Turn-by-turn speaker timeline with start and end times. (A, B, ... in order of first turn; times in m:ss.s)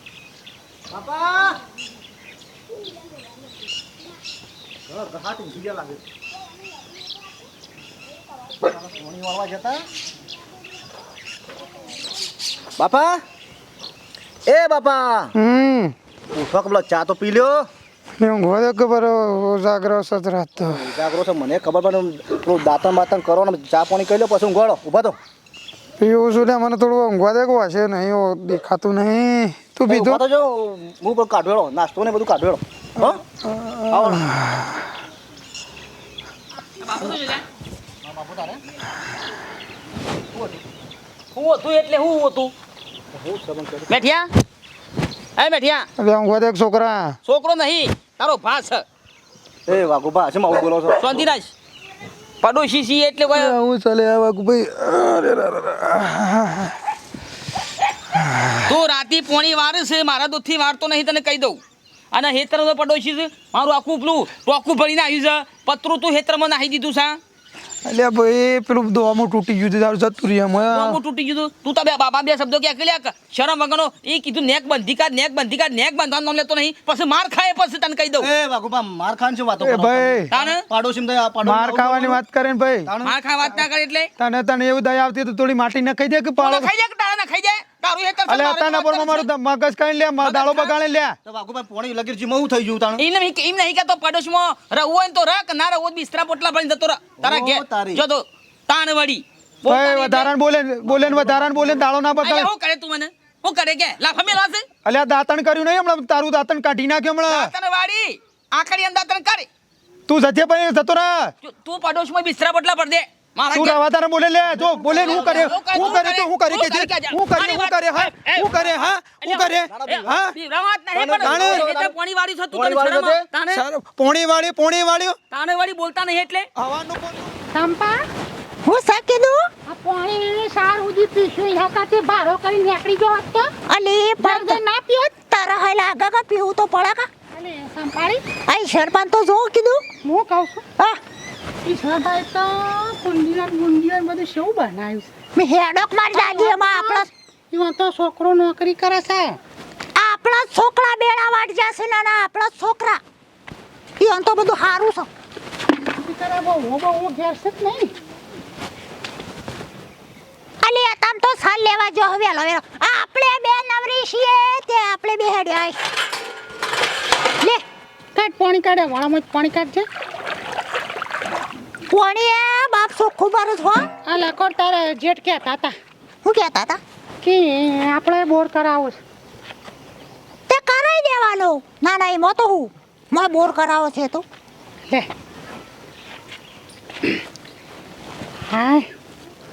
0:00.9-0:01.6 A
0:04.9-0:06.0 A
0:08.6-0:09.8 A
0:12.8-0:13.2 A
0:14.4-0:15.3 A
0:15.4-0:15.9 B
0:16.3-0:17.7 A
0:18.2-0:20.9 B
0:20.6-0:25.2 A
0:26.0-0:30.2 B
0:29.9-0:33.2 A
0:33.0-0:34.7 B
0:33.9-0:34.3 A
0:36.8-0:37.4 C
0:38.0-0:38.6 A
0:41.3-0:42.5 C
0:43.1-0:43.9 A
0:43.9-0:44.3 C
0:45.4-0:45.9 C
0:46.0-0:47.2 B
0:47.2-0:48.8 C
0:49.7-0:51.2 A
0:51.0-0:51.5 C
0:52.4-0:53.6 C
0:53.3-0:56.7 B
0:58.6-1:01.6 C
1:02.1-1:07.2 C
1:07.8-1:11.0 B
1:10.7-1:18.3 C
1:18.2-1:22.2 A
1:19.6-1:20.3 B
1:20.3-1:20.6 C
1:21.4-1:22.9 B
1:22.9-1:23.2 A
1:23.0-1:24.1 C
1:24.2-1:26.7 B
1:26.4-1:29.3 C
1:28.3-1:31.2 B
1:30.2-1:30.8 C
1:31.2-1:33.0 A
1:33.0-1:40.3 C
1:37.2-1:38.0 A
1:39.6-1:42.5 B
1:40.8-1:41.9 A
1:42.2-1:44.6 C
1:44.8-1:47.5 B
1:47.3-1:49.5 C
1:50.1-1:51.3 B
1:51.4-1:53.8 C
1:53.5-2:00.3 B
1:54.4-1:55.8 A
1:55.0-2:03.6 C
1:59.7-2:00.1 A
2:00.9-2:01.9 A
2:01.2-2:01.7 B
2:02.5-2:03.3 A
2:03.5-2:05.2 B
2:05.3-2:06.5 C
2:06.6-2:07.3 B
2:07.5-2:08.0 D
2:08.6-2:09.4 E
2:09.6-2:13.5 D
2:13.7-2:14.6 E
2:14.2-2:15.1 D
2:15.3-2:17.1 E
2:17.3-2:18.2 D
2:18.4-2:19.8 E
2:20.0-2:20.6 D
2:21.6-2:25.1 D
2:25.3-2:27.1 E
2:26.1-2:29.4 D
2:30.0-2:33.0 E
2:34.0-2:35.1 E
2:35.9-2:37.9 D
2:40.6-2:45.8 E
2:48.1-2:49.9 D
2:51.9-2:53.9 E
2:54.0-2:55.7 D
2:56.2-2:56.8 E
2:57.2-2:59.0 D
3:00.5-3:04.2 E
3:08.5-3:08.9 D